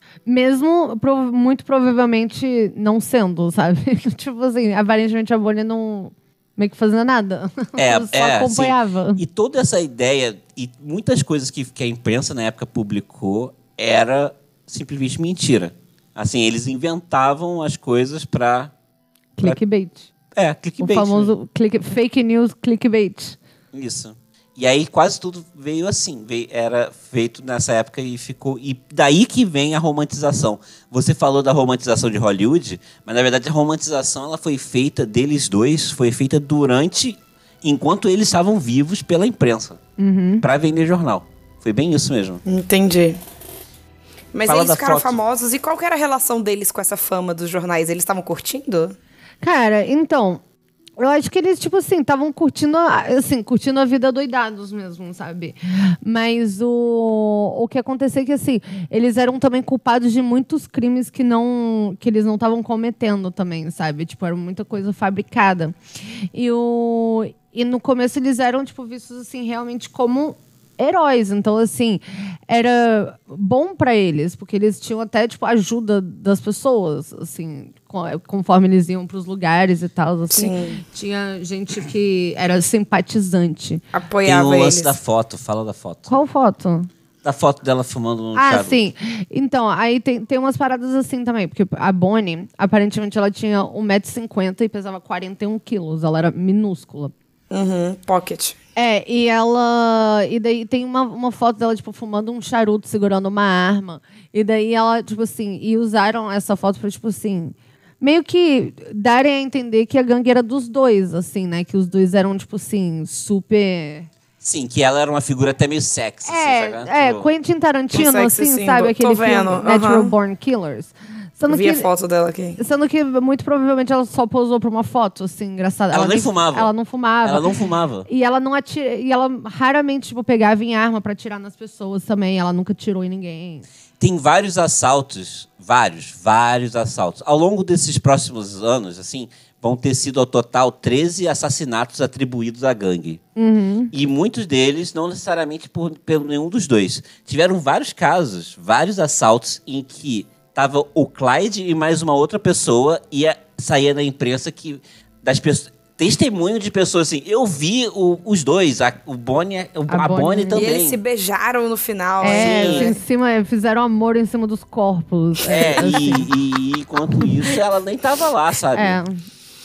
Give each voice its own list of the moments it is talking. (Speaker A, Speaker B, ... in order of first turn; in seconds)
Speaker A: 0.2-9.2, 19.4-20.1, 20.8-23.4, 40.0-40.5, 49.4-50.4, 51.0-65.7, 66.3-83.8, 86.1-86.9, 88.3-97.1, 98.8-114.1, 116.2-121.9, 122.6-127.5, 128.1-133.7, 143.3-143.9, 159.9-160.7, 162.2-166.3, 168.7-169.2
Speaker B: 7.8-18.7, 20.3-21.3, 23.7-39.8, 40.4-42.4, 44.5-45.2, 84.2-86.1, 87.2-88.8, 114.4-117.3, 125.9-126.7, 127.2-128.1, 134.0-143.2, 143.9-161.0, 162.3-162.9, 165.5-169.0
Speaker C: 42.5-43.2, 44.3-49.0, 80.3-80.8, 83.9-85.0, 97.5-98.5, 117.9-120.1, 121.5-122.6, 160.5-163.0